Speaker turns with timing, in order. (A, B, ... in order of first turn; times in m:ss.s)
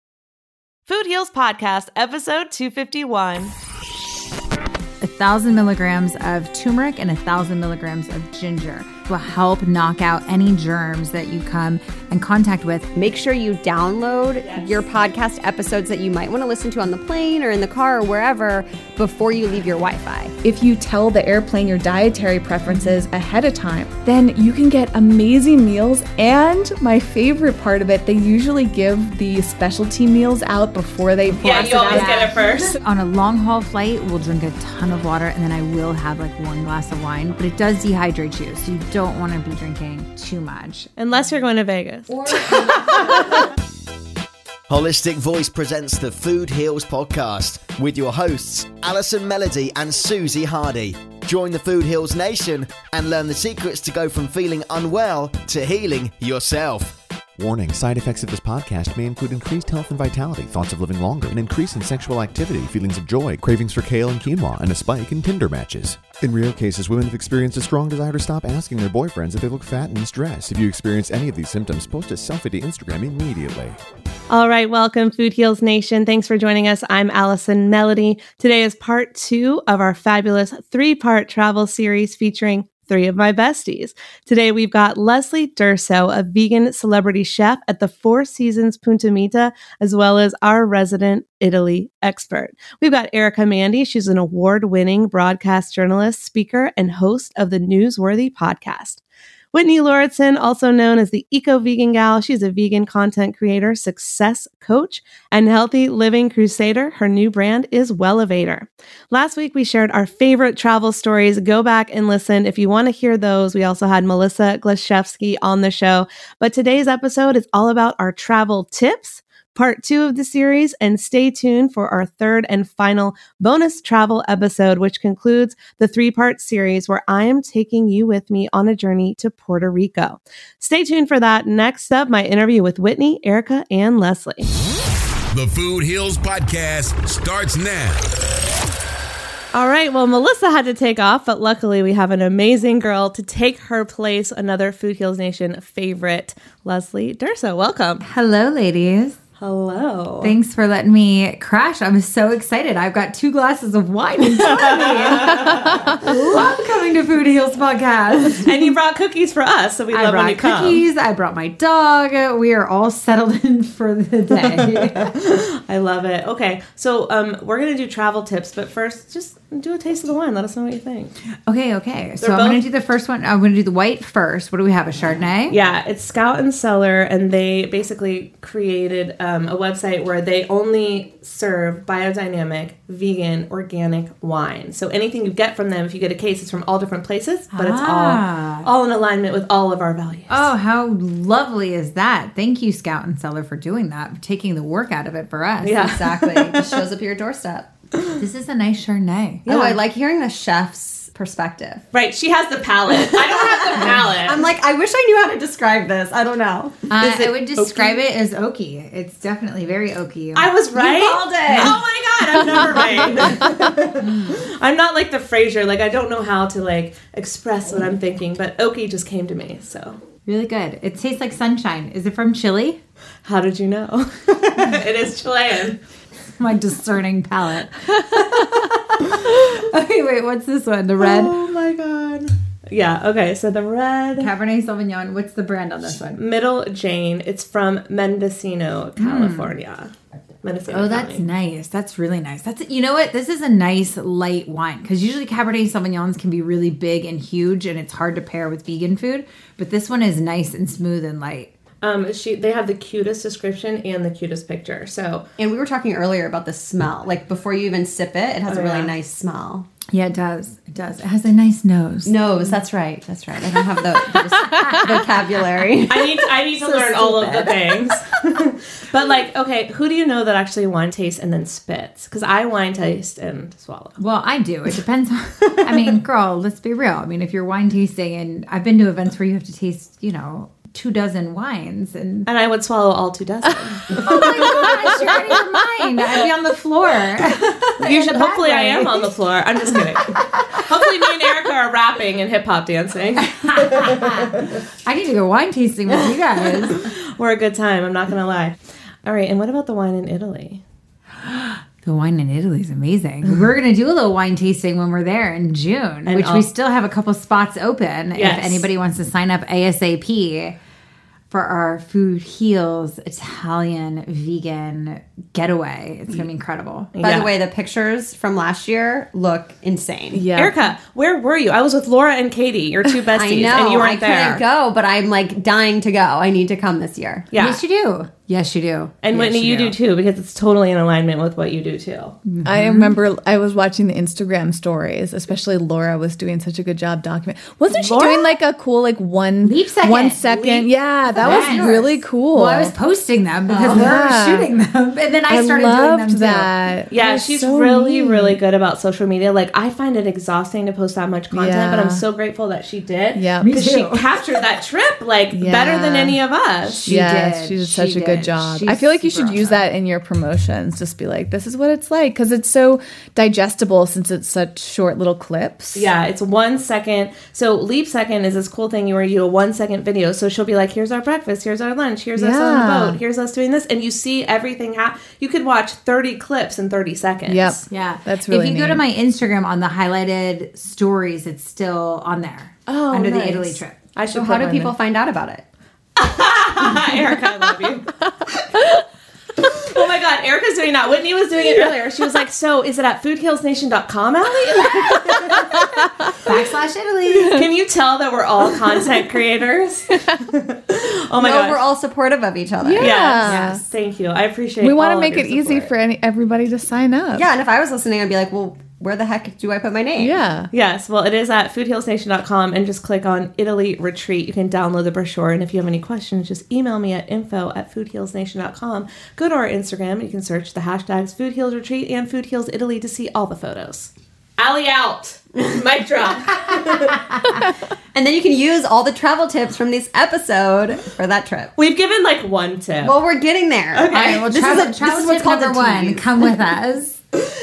0:00.9-0:03.5 A
0:05.0-0:12.9 B
0:13.0-0:20.3 C
0:14.4-0:14.8 A
0:20.4-0:32.8 D
0:22.7-0:23.0 B
0:31.4-0:32.7 A
0:31.9-0:40.9 B
0:41.0-0:42.1 A
0:42.1-0:43.4 B
0:44.7-0:57.0 E
0:57.4-1:13.8 F
1:14.3-1:39.0 A
1:39.5-2:14.5 A
2:15.3-2:18.0 G
2:19.5-2:28.0 A
2:28.0-2:29.2 B
2:29.4-2:30.3 A
2:30.2-2:38.5 B
2:34.4-2:36.0 A
2:38.4-2:40.8 A
2:39.9-2:45.1 B
2:44.3-2:51.1 A
2:51.5-2:55.6 B
2:52.2-2:52.6 A
2:55.5-3:10.5 A
3:07.5-3:08.7 B
3:10.3-3:16.0 B
3:15.6-3:16.8 A
3:15.8-3:17.7 C
3:18.2-3:19.5 B
3:19.5-3:19.8 A
3:19.5-3:21.8 C
3:21.9-3:24.5 A
3:22.9-3:26.8 C
3:26.9-3:30.5 B
3:27.0-3:28.0 A
3:30.3-3:40.0 A
3:30.8-3:31.8 C
3:31.5-3:31.8 B
3:32.5-3:33.4 C
3:34.0-3:34.4 B
3:40.3-3:42.8 B
3:43.2-3:45.8 A
3:46.4-3:51.3 B
3:51.0-3:54.3 A
3:54.2-3:56.2 B
3:56.1-3:59.9 A
3:59.0-3:59.5 B
4:00.4-4:01.2 A
4:00.7-4:11.5 B
4:11.8-4:15.3 A
4:15.4-4:19.7 C
4:18.5-4:18.9 A
4:19.9-4:22.1 B
4:22.1-4:27.5 C
4:24.4-4:24.9 B
4:25.9-4:34.0 A
4:27.2-4:27.5 B
4:34.0-4:42.3 B
4:35.5-4:35.8 A
4:42.3-4:45.4 A
4:43.9-4:49.1 B
4:47.8-4:54.5 A
4:53.3-4:56.9 B
4:56.8-5:00.6 A
5:01.2-5:10.6 B
5:06.1-5:06.5 A
5:08.2-5:08.7 A
5:11.3-5:16.9 B
5:17.0-5:17.3 A
5:17.0-5:20.3 C
5:20.1-5:20.7 D
5:20.4-5:24.4 A
5:23.1-5:27.3 C
5:27.3-5:27.6 A
5:27.4-5:29.8 B
5:29.0-5:32.1 A
5:32.2-5:33.0 B
5:32.4-5:42.7 D
5:37.7-5:38.3 A
5:39.4-5:46.5 B
5:41.2-5:41.6 A
5:43.5-5:43.9 A
5:43.6-5:44.5 D
5:45.3-5:48.4 D
5:46.9-5:56.9 A
5:51.3-5:52.0 D
5:53.1-5:53.6 D
5:53.4-5:54.0 B
5:55.3-5:56.2 D
5:56.8-5:59.6 B
5:56.8-6:05.9 D
6:05.8-6:17.6 A
6:12.2-6:13.0 D
6:17.2-6:18.8 D
6:17.7-6:23.9 B
6:22.7-6:23.6 D
6:23.0-6:24.7 A
6:24.1-6:25.4 C
6:26.0-6:27.9 A
6:29.4-6:35.5 A
6:34.9-6:37.5 B
6:37.3-6:41.6 A
6:41.2-6:43.4 C
6:42.6-6:43.6 D
6:42.8-6:45.7 A
6:43.2-6:43.6 B
6:44.6-6:47.3 D
6:47.2-6:50.1 C
6:50.0-6:50.5 D
6:50.5-7:07.1 A
7:07.9-7:11.5 C
7:11.6-7:13.0 A
7:12.8-7:16.0 C
7:13.7-7:14.2 A
7:14.0-7:17.0 B